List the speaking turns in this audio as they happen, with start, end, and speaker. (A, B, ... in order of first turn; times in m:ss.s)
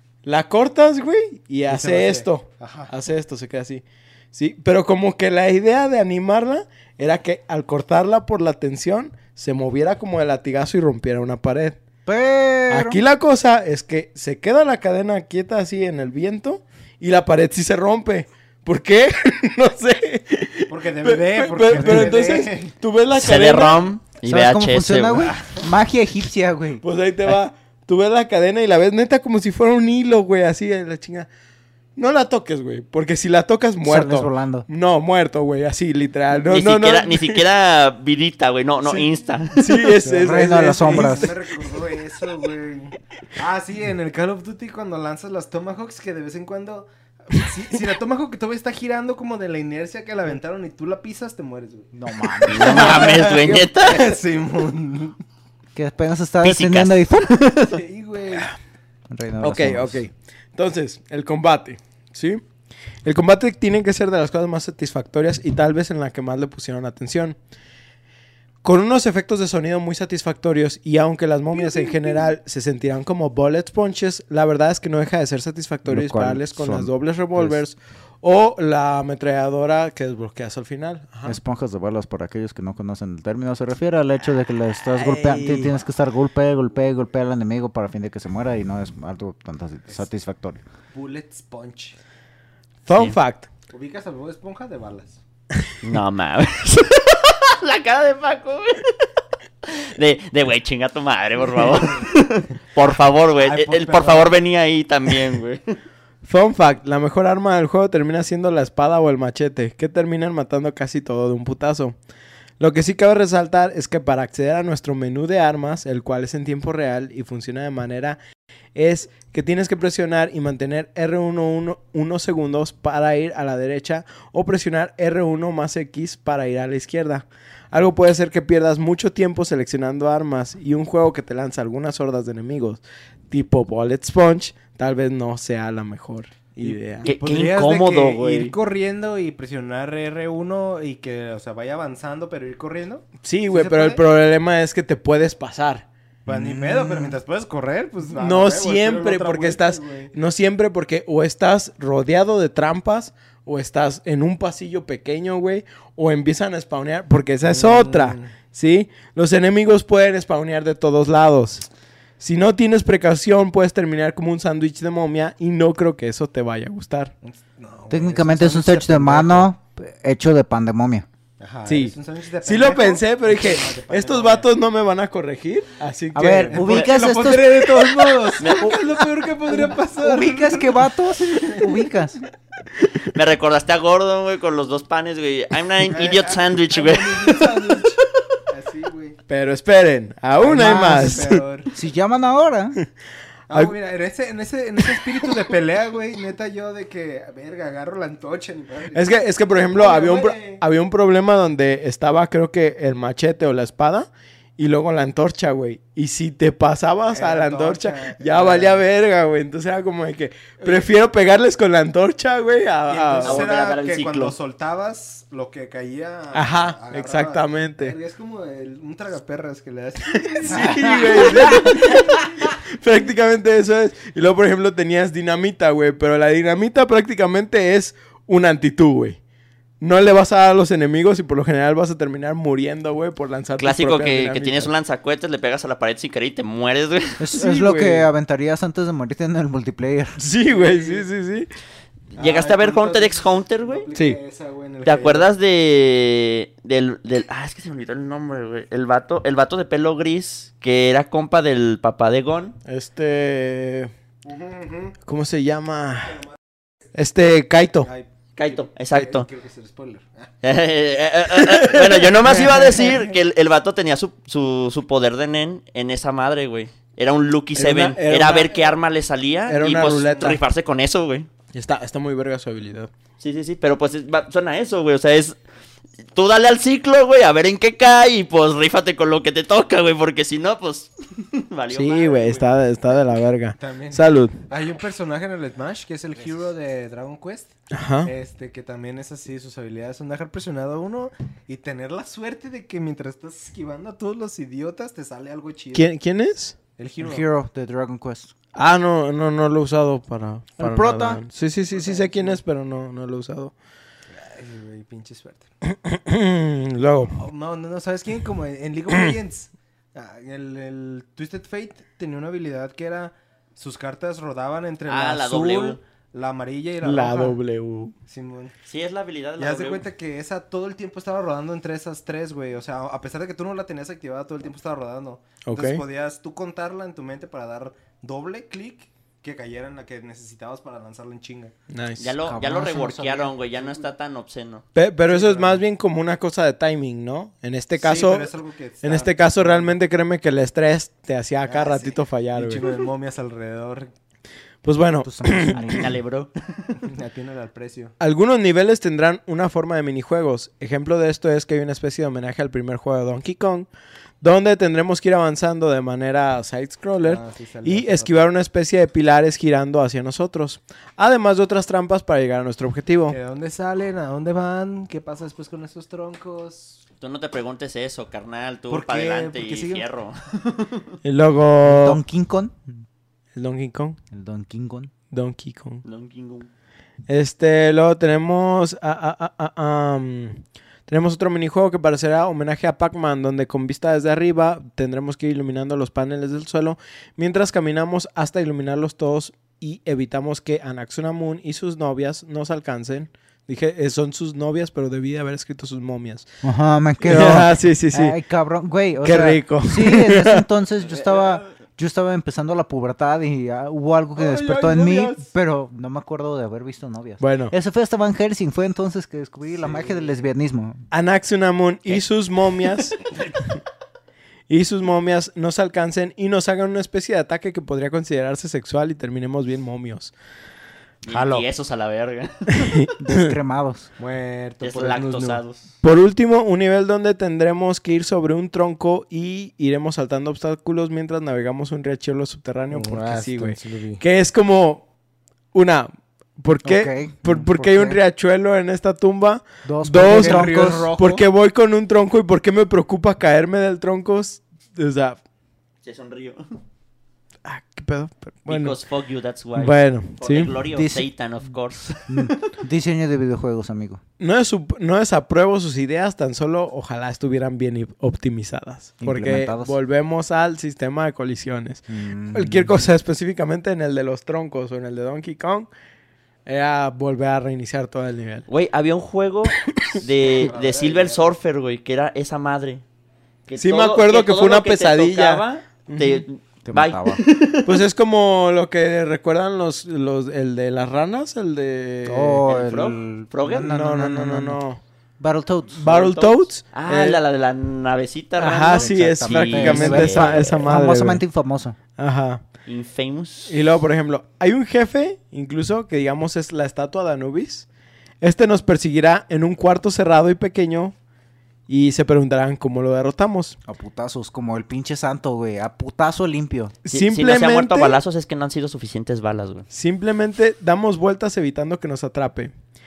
0:00.2-0:11.8 A
0:01.7-0:02.9 B
0:12.0-0:13.0 C
0:12.7-0:23.8 A
0:20.7-0:22.7 B
0:21.8-0:22.0 D
0:23.2-0:25.3 D
0:24.3-0:26.8 C
0:26.8-0:31.3 A
0:32.0-0:37.4 A
0:33.8-0:34.6 C
0:36.3-0:40.0 D
0:38.8-0:41.3 A
0:40.0-0:51.9 B
0:40.2-0:41.3 C
0:51.9-0:53.0 C
0:52.4-0:55.2 B
0:52.5-0:54.2 D
0:52.7-0:53.6 A
0:55.7-0:57.3 C
0:56.4-0:57.8 D
0:57.6-0:58.5 B
0:59.1-1:00.0 C
0:59.4-1:02.4 A
1:03.0-1:07.4 A
1:08.6-1:21.4 A
1:11.5-1:12.3 B
1:15.9-1:17.6 C
1:21.2-1:30.6 C
1:24.9-1:25.7 A
1:30.9-1:32.0 B
1:32.8-1:33.5 A
1:33.7-1:35.2 B
1:35.8-1:39.1 D
1:39.6-1:45.6 D
1:43.4-1:44.3 B
1:46.2-1:52.0 A
1:52.6-1:58.2 A
1:58.7-2:17.1 A
2:16.6-2:24.0 B
2:17.0-2:18.5 D
2:23.2-2:25.8 A
2:26.2-2:30.1 B
2:26.3-2:27.2 C
2:28.2-2:41.7 A
2:37.4-2:38.3 B
2:42.2-2:47.1 A
2:47.2-2:49.5 B
2:47.9-2:51.0 C
2:51.4-2:54.5 B
2:51.7-2:56.7 A
2:56.1-2:57.8 C
2:56.5-3:01.8 B
2:56.7-2:57.1 D
2:58.4-2:58.9 D
2:59.5-3:02.2 C
3:03.1-3:07.6 D
3:05.9-3:09.2 B
3:09.3-3:11.4 A
3:10.4-3:11.7 B
3:10.4-3:12.8 C
3:13.5-3:20.6 B
3:18.9-3:33.4 A
3:27.1-3:28.8 B
3:32.9-3:42.2 B
3:33.2-3:34.3 D
3:36.3-3:38.0 A
3:40.1-3:49.2 A
3:40.7-3:41.5 C
3:49.8-3:54.7 A
3:53.6-3:57.3 D
3:57.2-4:00.2 C
3:57.3-3:58.1 A
4:00.2-4:01.5 A
4:00.5-4:01.0 B
4:02.1-4:03.9 D
4:02.2-4:05.3 B
4:03.9-4:04.2 A
4:04.8-4:12.6 D
4:12.6-4:13.9 A
4:14.2-4:14.9 B
4:15.0-4:16.2 A
4:16.9-4:17.9 A
4:17.8-4:20.3 B
4:18.4-4:19.3 D
4:20.4-4:31.3 D
4:21.3-4:22.6 A
4:22.3-4:23.0 B
4:27.5-4:28.7 A
4:29.5-4:30.4 A
4:30.0-4:30.2 B
4:31.5-4:32.9 A
4:33.2-4:35.4 D
4:36.1-4:42.5 D
4:41.7-4:44.4 A
4:43.6-4:55.9 B
4:47.7-4:48.1 A
4:55.7-4:56.6 A
4:56.8-4:57.2 B
4:57.0-4:58.3 C
4:58.5-5:03.5 A
5:00.6-5:01.2 C
5:01.7-5:02.4 B
5:04.1-5:05.4 B
5:05.7-5:07.1 A
5:07.1-5:17.4 B
5:14.9-5:15.8 D
5:16.8-5:17.9 A
5:18.1-5:18.5 B
5:18.6-5:19.8 D
5:19.4-5:31.5 B
5:25.4-5:25.8 A
5:31.7-5:32.1 A
5:32.0-5:34.6 D
5:32.2-5:33.3 C
5:34.7-5:38.3 A
5:35.1-5:35.6 B
5:37.8-5:39.8 B
5:38.8-5:42.6 A
5:41.4-5:43.9 B
5:44.6-5:45.8 A
5:45.0-5:45.9 C
5:45.5-5:46.8 D
5:46.8-5:47.9 B
5:48.0-5:53.7 A
5:54.2-6:03.2 A
5:57.0-5:58.2 B
6:03.1-6:06.8 B
6:07.0-6:10.9 D
6:08.7-6:09.8 B
6:11.0-6:12.0 A
6:11.6-6:12.6 C
6:13.3-6:14.0 A
6:14.1-6:14.9 C
6:15.1-6:15.8 A
6:15.8-6:16.5 D
6:17.1-6:36.3 A
6:36.4-6:50.8 C
6:37.0-6:38.2 A
6:39.0-6:40.4 A
6:44.2-6:45.2 A
6:47.2-6:47.5 A
6:50.9-6:53.0 A
6:54.5-7:00.1 A
7:01.0-7:02.8 D
7:01.1-7:01.4 B
7:02.6-7:03.3 A
7:03.0-7:03.9 C
7:04.0-7:05.4 B
7:04.6-7:05.6 D
7:05.8-7:14.8 A
7:12.7-7:14.0 B
7:15.5-7:25.2 A
7:16.6-7:18.0 C
7:19.6-7:21.2 C
7:20.0-7:20.9 B
7:25.8-7:26.6 D
7:27.4-7:28.8 A
7:28.5-7:32.5 D
7:29.6-7:30.5 A
7:30.8-7:31.1 C
7:32.1-7:34.0 C
7:34.2-7:45.7 A
7:39.0-7:39.7 C
7:41.9-7:42.7 C
7:46.4-7:48.5 A
7:48.5-7:52.8 D
7:50.1-7:51.3 B
7:53.5-7:57.8 D
7:53.6-7:56.2 A
7:56.7-7:57.2 C
7:57.6-8:02.4 A
8:02.0-8:04.6 C
8:02.5-8:03.7 D
8:03.5-8:04.8 A
8:05.2-8:05.8 C
8:05.8-8:07.2 A
8:05.8-8:10.6 D
8:08.4-8:11.2 A
8:08.8-8:11.8 C
8:12.0-8:12.4 A
8:12.6-8:13.5 D
8:13.5-8:17.7 A
8:18.2-8:20.9 A
8:21.7-8:23.6 A
8:23.6-8:26.8 C
8:26.8-8:28.0 A
8:26.9-8:29.7 D
8:29.7-8:32.5 A